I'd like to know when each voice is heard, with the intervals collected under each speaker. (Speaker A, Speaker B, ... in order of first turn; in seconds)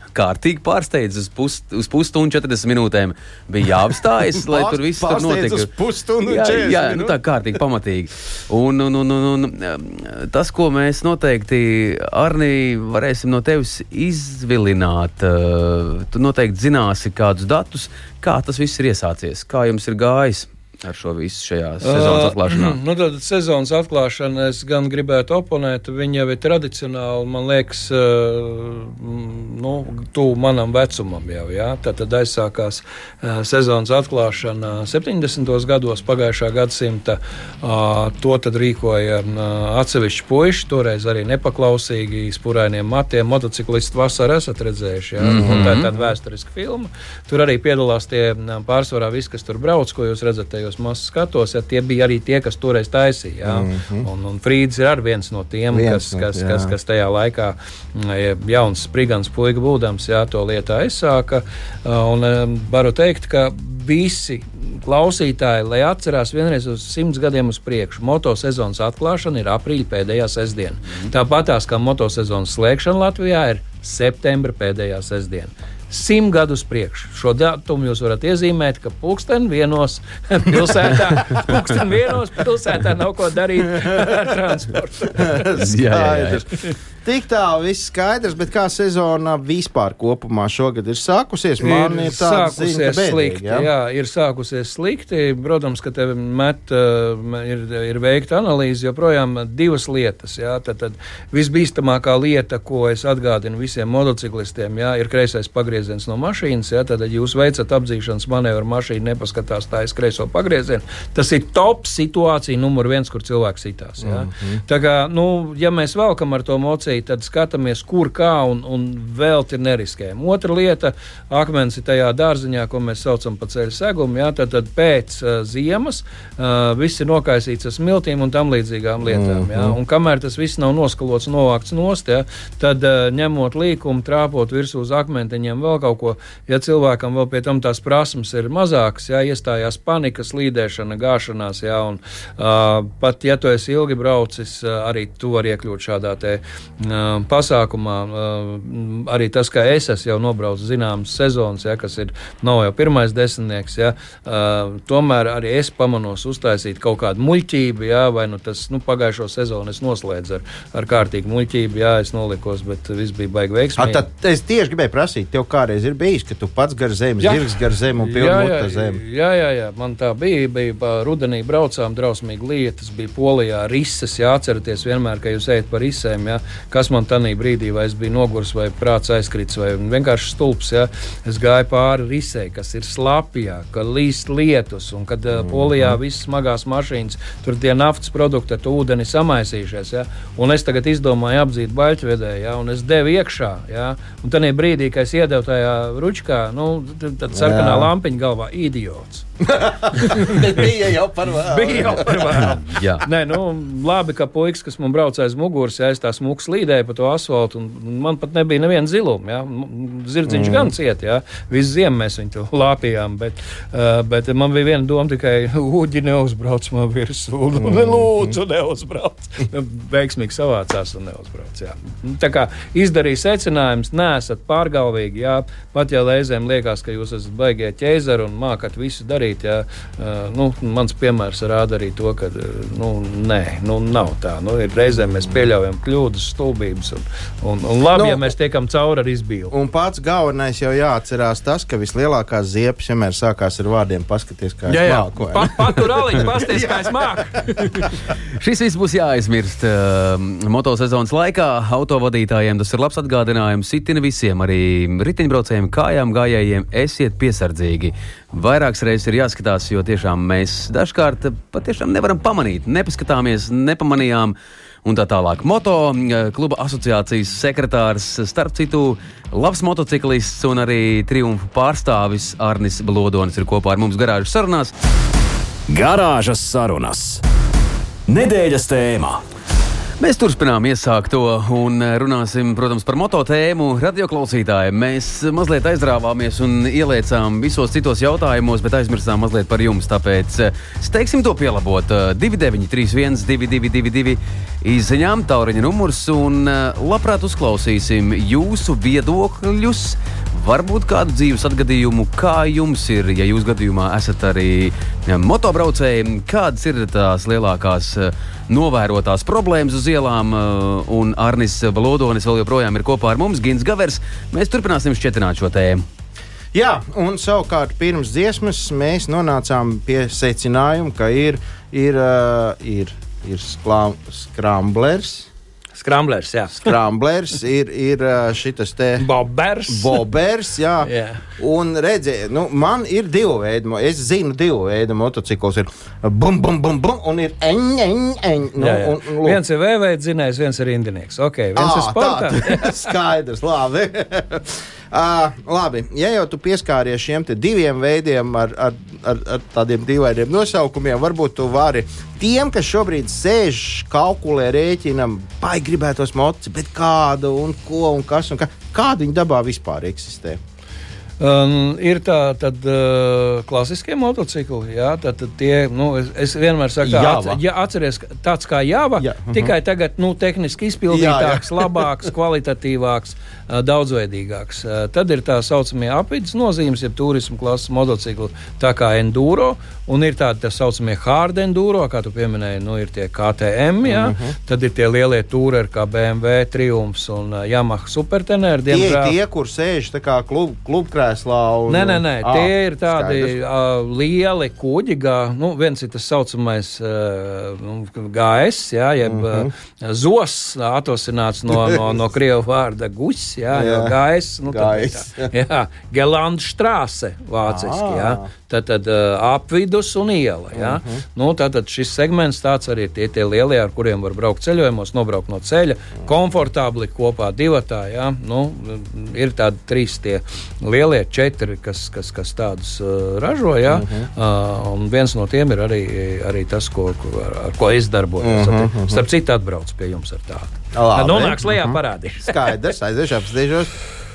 Speaker A: 0.1-5.7, 6.2-22.8, 45.2-45.9, 85.6-86.5, 202.7-203.0, 248.4-274.7, 280.0-315.8
Speaker B: 4.4-7.2, 45.3-46.1, 53.5-54.1, 55.7-56.7, 83.7-84.1, 85.1-86.5, 87.0-93.7, 114.0-114.6, 129.0-129.8, 163.8-169.0, 185.4-186.0, 197.3-197.9, 199.4-202.6, 210.3-210.7, 217.6-218.3, 237.9-238.3, 239.5-247.7, 316.5-325.3, 326.5-329.1, 329.7-339.4, 341.6-360.4, 366.8-367.4, 369.0-369.5, 370.9-371.8, 383.9-384.4, 388.7-393.4, 399.1-399.5, 403.5-403.9, 404.5-405.3, 407.4-408.3, 410.5-411.0, 423.7-424.1, 428.2-429.0, 430.7-433.7
Speaker C: 21.8-85.4, 91.6-164.0, 167.2-199.3, 199.9-200.6, 201.3-239.5, 244.7-247.9, 325.8-326.8, 329.0-330.0, 330.8-331.2, 338.6-342.8, 361.2-389.2, 391.7-432.5
Speaker D: 275.7-277.2, 278.1-279.2